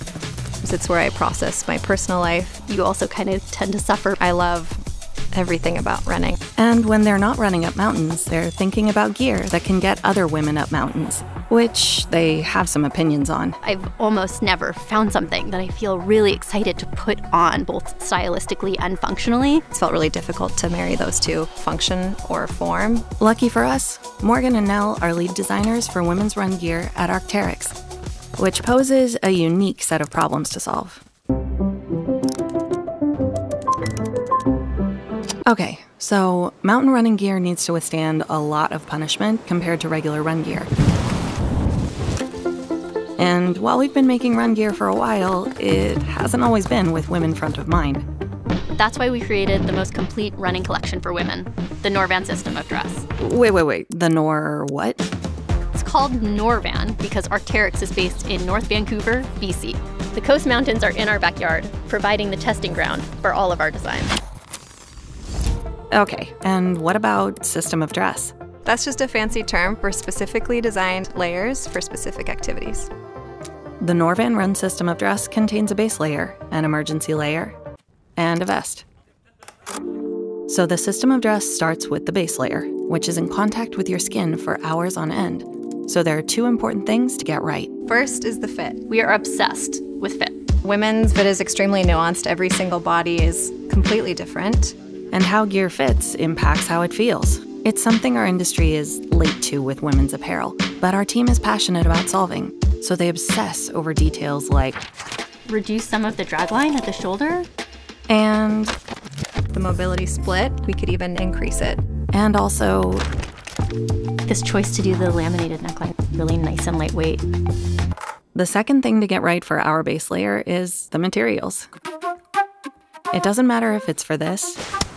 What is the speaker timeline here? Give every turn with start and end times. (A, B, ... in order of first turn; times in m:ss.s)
0:00.6-0:02.6 A
0:02.6-0:04.2 B
0:04.2-0:04.8 A
0:05.3-0:06.4 A
0:06.6-0:13.6 C
0:13.6-0:19.6 B
0:19.7-0:23.1 A
0:23.2-0:27.8 C
0:28.4-0:31.0 C
0:35.5-0:40.7 C
0:43.2-0:48.0 C
0:48.8-0:53.1 B
0:53.2-0:55.0 C
0:55.7-1:04.2 B
1:05.9-1:08.3 C
1:08.6-1:12.9 A
1:13.8-1:17.6 C
1:18.2-1:18.8 C
1:20.5-1:27.7 C
1:27.9-1:28.8 A
1:28.9-1:30.4 B
1:30.6-1:34.7 A
1:35.1-1:44.8 C
1:45.5-1:47.5 B
1:48.1-1:48.8 C
1:49.5-1:51.8 A
1:52.1-1:53.1 C
1:54.3-1:57.2 B
1:58.4-2:01.7 C
2:03.1-2:04.6 C